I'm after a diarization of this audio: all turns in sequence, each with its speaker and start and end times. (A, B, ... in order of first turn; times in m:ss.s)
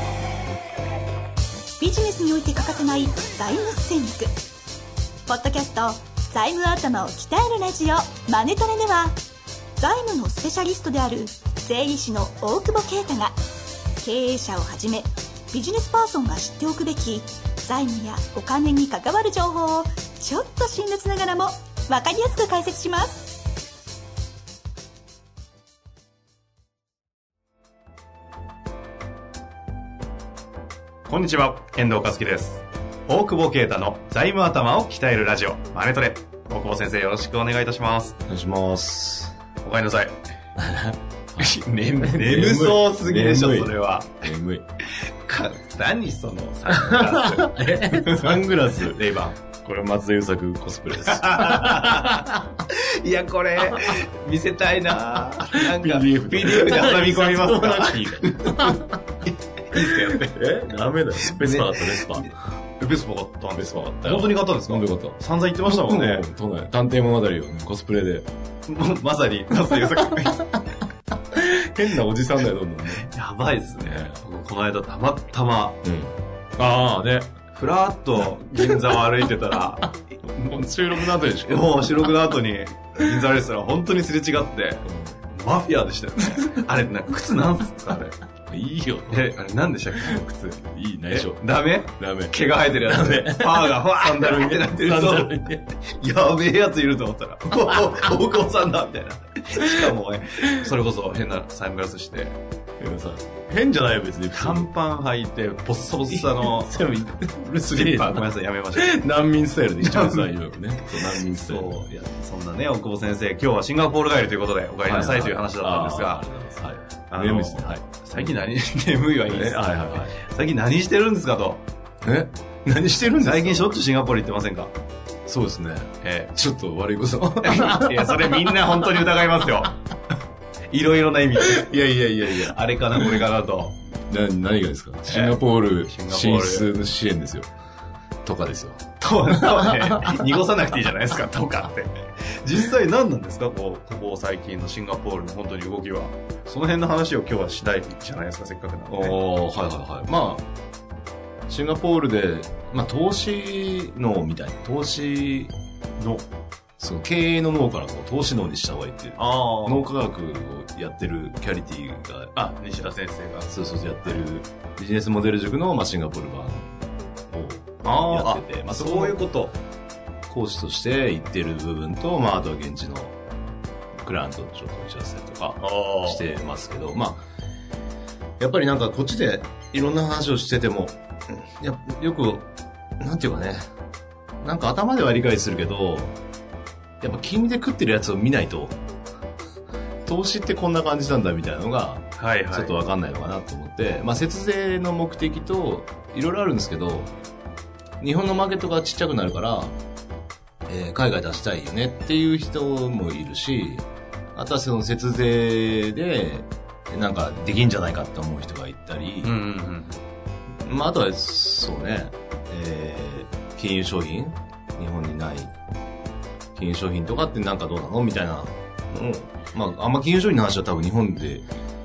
0:01.8-0:04.3 A
0:05.3-0:09.2 A
0:09.8-0:13.4 A
0:14.0-0:23.4 A
0:31.1-0:38.2 B
0:38.3-0:39.4 C
0:39.6-0:40.2 B
0:40.6-0:41.5 C
0:41.4-0:44.2 B
0:42.0-0:44.6 C
0:45.3-0:48.5 B
0:46.7-0:52.5 C
0:51.0-0:59.0 B
0:55.4-0:58.9 C
0:59.6-1:00.4 B
0:59.7-1:02.3 C
1:01.2-1:06.3 B
1:03.6-1:08.3 C
1:08.7-1:10.5 B
1:10.2-1:10.6 C
1:11.3-1:13.1 C
1:13.0-1:15.8 B
1:13.8-1:14.2 C
1:15.8-1:17.2 C
1:16.6-1:20.7 B
1:18.6-1:18.9 C
1:20.4-1:22.1 C
1:21.4-1:28.2 B
1:24.8-1:25.2 C
1:26.2-1:26.7 C
1:28.5-1:29.2 C
1:29.1-1:42.4 B
1:30.1-1:35.6 C
1:42.8-1:44.7 C
1:44.3-1:46.9 B
1:46.1-1:52.0 C
1:47.6-1:49.0 B
1:49.8-1:50.3 B
1:50.9-1:56.2 B
1:54.8-1:58.4 C
1:57.1-2:01.6 B
1:59.3-2:00.1 C
2:02.0-2:03.8 C
2:03.2-2:04.7 B
2:05.3-2:08.9 C
2:06.0-2:06.3 B
2:07.4-2:09.8 B
2:10.7-2:13.8 B
2:11.4-2:13.2 C
2:14.1-2:17.5 C
2:15.1-2:16.7 B
2:18.2-2:20.3 C
2:19.0-2:29.2 B
2:28.9-2:30.5 C
2:31.5-2:35.5 C
2:36.0-2:36.3 B
2:36.8-2:42.3 C
2:39.2-2:39.9 B
2:42.4-2:44.2 B
2:43.5-2:49.2 C
2:47.8-2:49.6 B
2:50.3-2:53.2 C
2:54.0-2:57.2 C
2:55.6-2:56.3 B
2:58.4-3:02.5 C
3:03.0-3:03.7 C
3:04.4-3:06.2 C
3:07.0-3:08.8 C
3:10.0-3:17.1 C
3:12.2-3:12.8 B
3:18.0-3:19.8 C
3:20.7-3:29.3 C
3:29.2-3:30.0 B
3:30.6-3:35.5 C
3:36.6-3:41.5 C